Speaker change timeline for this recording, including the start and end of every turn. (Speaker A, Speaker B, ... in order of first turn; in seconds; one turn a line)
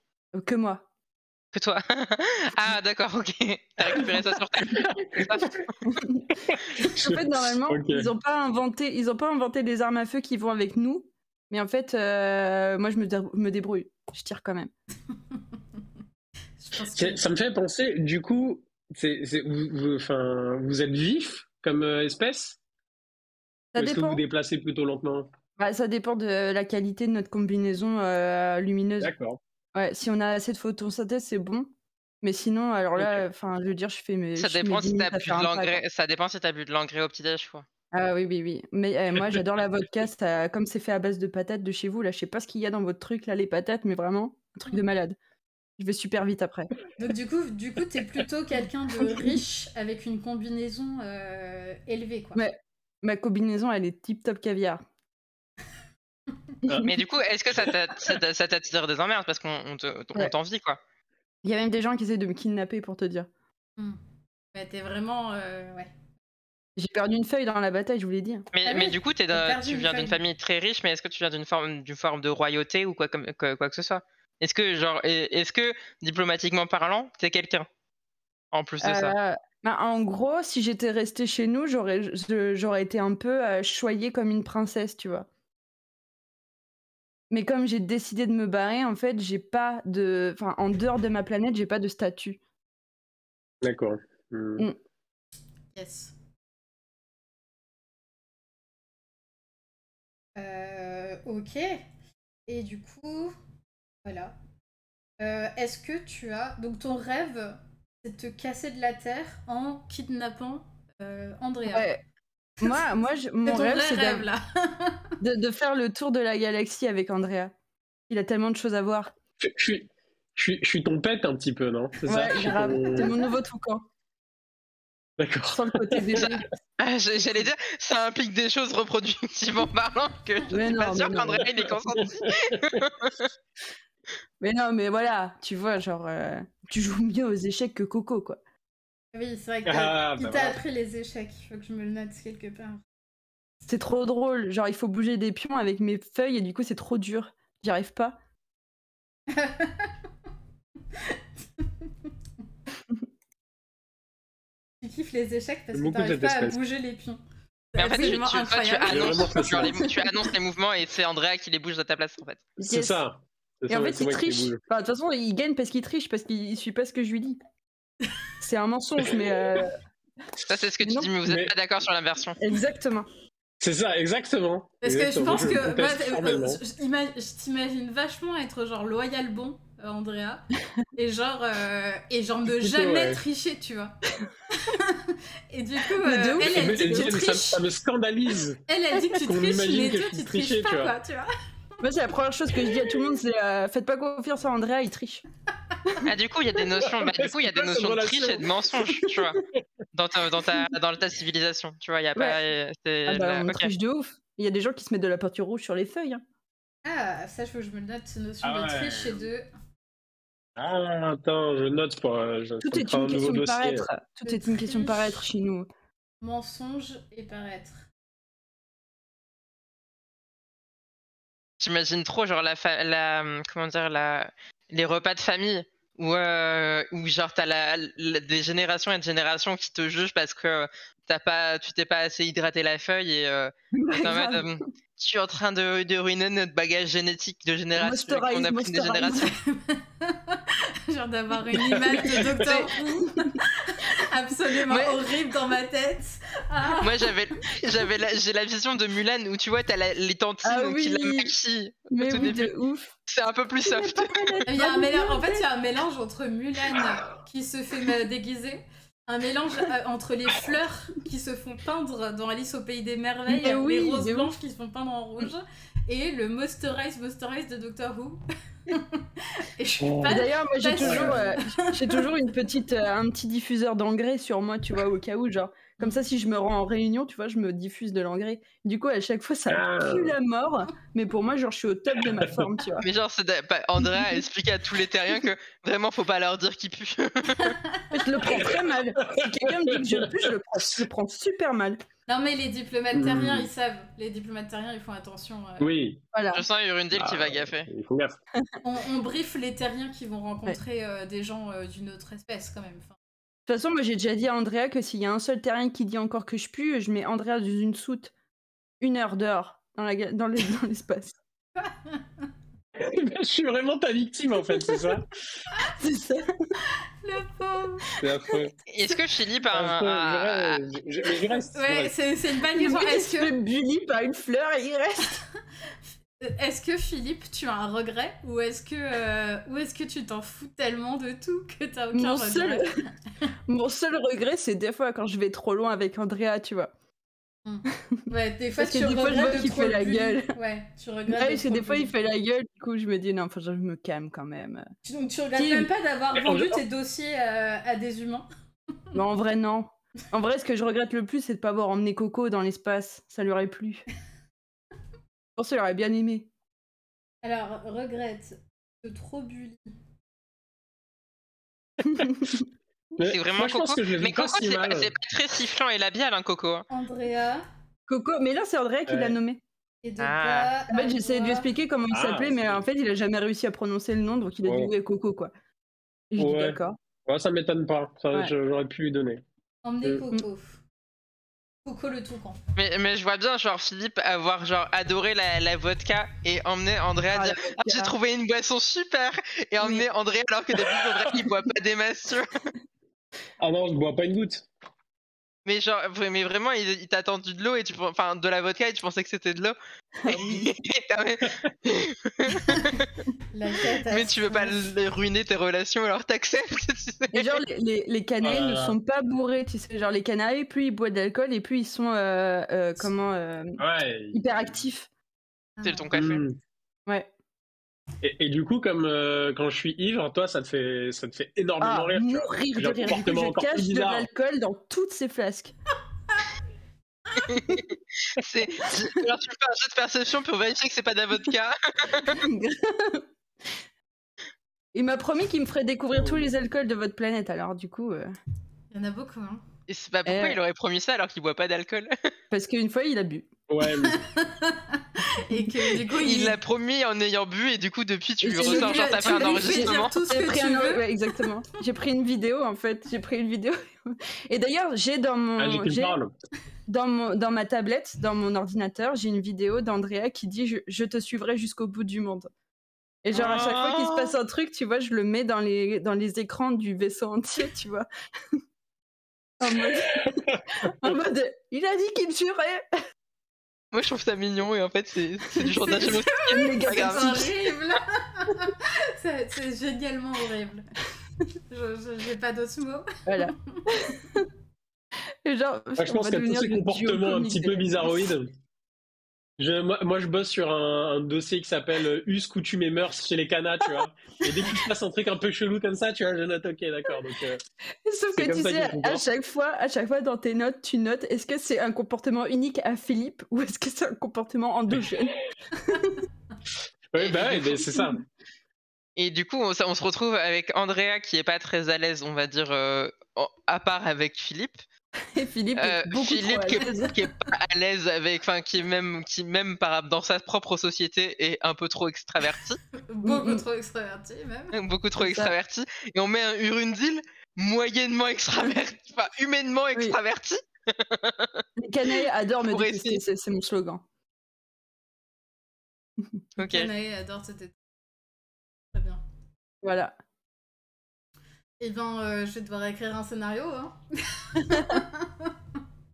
Speaker A: 0.3-0.8
Speaker B: 1.5-5.8
Speaker C: 4.7-5.5
Speaker A: 5.8-14.7
Speaker C: 6.5-8.1
Speaker D: 16.6-17.2
Speaker C: 16.9-22.6
Speaker A: 23.7-24.2
Speaker C: 23.8-25.3
Speaker A: 25.6-29.1
Speaker C: 29.0-29.4
Speaker A: 29.7-31.7
Speaker A: 32.2-35.8
Speaker B: 34.4-37.6
Speaker A: 37.9-45.2
Speaker A: 45.8-46.7
Speaker D: 47.0-52.4
Speaker A: 52.3-54.8
Speaker B: 56.8-60.8
Speaker A: 61.4-63.3
Speaker D: 64.5-65.9
Speaker A: 66.8-68.5
Speaker B: 68.5-77.7
Speaker D: 68.6-70.2
Speaker B: 78.5-79.1
Speaker A: 78.8-85.3
Speaker A: 87.3-92.4
Speaker C: 93.6-94.7
Speaker D: 95.7-96.1
Speaker D: 100.3-101.8
Speaker D: 102.5-103.3
Speaker D: 104.0-104.3
Speaker D: 105.2-111.9
Speaker A: 111.7-112.0
Speaker A: 112.6-114.2
Speaker D: 113.5-115.1
Speaker A: 115.2-117.5
Speaker A: 118.1-119.1
Speaker C: 119.4-123.2
Speaker A: 122.0-123.8
Speaker C: 125.2-126.4
Speaker A: 125.5-126.4
Speaker B: 126.8-133.3
Speaker A: 130.5-131.4
Speaker C: 131.4-132.8
Speaker A: 134.4-138.4
Speaker D: 139.1-142.8
Speaker C: 139.7-140.6
Speaker A: 143.6-148.2
Speaker D: 149.3-149.9
Speaker D: 150.9-151.9
Speaker D: 154.8-157.2
Speaker C: 155.7-156.6
Speaker D: 157.7-159.4
Speaker B: 157.8-162.4
Speaker A: 157.9-158.2
Speaker C: 158.9-159.8
Speaker A: 159.7-160.1
Speaker A: 162.6-163.0
Speaker C: 162.7-164.6
Speaker A: 163.7-167.4
Speaker A: 168.4-169.8
Speaker B: 170.4-172.4
Speaker A: 170.8-171.1
Speaker C: 171.2-171.5
Speaker A: 172.4-173.1
Speaker C: 173.6-176.6
Speaker D: 174.8-183.9
Speaker C: 182.5-183.2
Speaker D: 184.5-187.6
Speaker A: 186.0-187.2
Speaker C: 186.4-188.6
Speaker D: 188.7-191.3
Speaker C: 189.2-190.9
Speaker A: 191.8-195.2
Speaker A: 195.8-196.1
Speaker B: 196.0-199.4
Speaker C: 196.8-198.5
Speaker A: 198.9-199.4
Speaker B: 199.9-203.7
Speaker A: 203.1-206.2
Speaker D: 206.8-209.5
Speaker C: 208.4-209.3
Speaker C: 210.6-213.8
Speaker A: 212.6-215.7
Speaker D: 214.2-215.2
Speaker D: 216.2-217.9
Speaker B: 221.6-239.3
Speaker A: 233.7-234.5
Speaker A: 237.8-239.3
Speaker D: 239.1-247.1
Speaker C: 241.9-242.2
Speaker A: 242.0-243.4
Speaker B: 244.7-245.0
Speaker B: 246.8-252.5
Speaker A: 250.4-251.3
Speaker A: 251.9-252.9
Speaker B: 253.1-254.4
Speaker A: 253.6-255.4
Speaker D: 254.5-272.1
Speaker A: 263.3-264.3
Speaker C: 269.8-270.2
Speaker A: 270.0-282.9
Speaker C: 270.8-271.2
Speaker C: 279.5-280.1
Speaker B: 282.8-287.6
Speaker D: 287.5-288.5
Speaker A: 287.9-291.8
Speaker C: 288.2-290.8
Speaker D: 292.1-295.7
Speaker C: 292.9-293.5
Speaker C: 295.6-296.0
Speaker A: 296.1-296.4
Speaker B: 296.3-297.7
Speaker C: 296.9-298.2
Speaker D: 298.6-302.9
Speaker A: 303.5-308.1
Speaker A: 308.8-311.2
Speaker D: 311.6-312.0
Speaker C: 312.8-315.1
Speaker A: 315.8-316.3
Speaker D: 317.0-317.9
Speaker C: 318.0-318.5
Speaker B: 318.7-320.6
Speaker C: 319.5-321.9
Speaker D: 321.5-323.3
Speaker A: 322.6-325.2
Speaker D: 326.2-332.9
Speaker A: 331.9-332.7
Speaker A: 333.5-336.7
Speaker D: 337.4-341.9
Speaker A: 338.6-340.3
Speaker A: 341.1-344.7
Speaker D: 344.8-348.2
Speaker A: 345.3-345.7
Speaker C: 346.1-346.6
Speaker A: 348.9-353.8
Speaker A: 355.4-356.3
Speaker D: 357.2-359.7
Speaker A: 361.9-362.4
Speaker C: 363.0-364.9
Speaker B: 363.0-366.6
Speaker D: 366.7-367.4
Speaker A: 367.9-369.4
Speaker C: 368.9-369.1
Speaker D: 369.8-371.4
Speaker B: 370.0-370.5
Speaker A: 370.7-375.3
Speaker C: 371.9-372.6
Speaker C: 374.4-374.7
Speaker A: 376.1-376.8
Speaker C: 376.2-379.2
Speaker D: 379.6-380.6
Speaker D: 381.6-382.4
Speaker B: 382.6-392.5
Speaker A: 387.1-387.9
Speaker C: 393.4-394.5
Speaker B: 395.4-402.9
Speaker A: 400.0-400.5
Speaker D: 403.3-404.6
Speaker B: 403.9-407.3
Speaker A: 407.1-413.6
Speaker C: 408.2-408.8
Speaker C: 413.6-414.6
Speaker A: 414.1-414.9
Speaker D: 415.6-416.0
Speaker B: 415.6-416.2
Speaker C: 415.9-416.4
Speaker C: 418.0-424.1
Speaker A: 421.6-425.5
Speaker B: 427.2-432.2
Speaker A: 432.1-433.5
Speaker A: 434.7-438.1
Speaker C: 435.9-436.3
Speaker D: 438.7-439.4
Speaker B: 439.7-441.9
Speaker A: 440.1-440.4
Speaker A: 442.3-443.3
Speaker C: 443.5-444.0
Speaker D: 443.8-446.4
Speaker B: 446.0-449.9
Speaker A: 448.2-455.9
Speaker D: 448.4-450.9
Speaker C: 455.4-456.1
Speaker A: 456.7-462.3
Speaker A: 463.0-468.4
Speaker B: 463.1-464.1
Speaker A: 469.4-472.7
Speaker C: 469.7-470.9
Speaker B: 473.7-477.3
Speaker A: 475.4-477.3
Speaker D: 475.4-480.6
Speaker D: 481.5-483.9
Speaker A: 483.1-484.2
Speaker A: 485.2-488.1
Speaker C: 485.8-488.3
Speaker C: 489.4-497.4
Speaker A: 497.8-505.9
Speaker C: 498.1-499.0
Speaker C: 506.9-508.0
Speaker A: 507.0-507.9
Speaker B: 508.9-514.6
Speaker A: 515.0-517.0
Speaker B: 515.5-522.6
Speaker D: 522.9-524.5
Speaker A: 523.0-523.4
Speaker B: 524.5-531.4
Speaker A: 525.0-525.3
Speaker A: 531.6-533.8
Speaker B: 532.4-533.0
Speaker B: 536.4-536.7
Speaker D: 536.4-537.5
Speaker D: 538.7-539.0
Speaker A: 539.6-539.9
Speaker D: 541.6-545.3
Speaker A: 544.5-544.8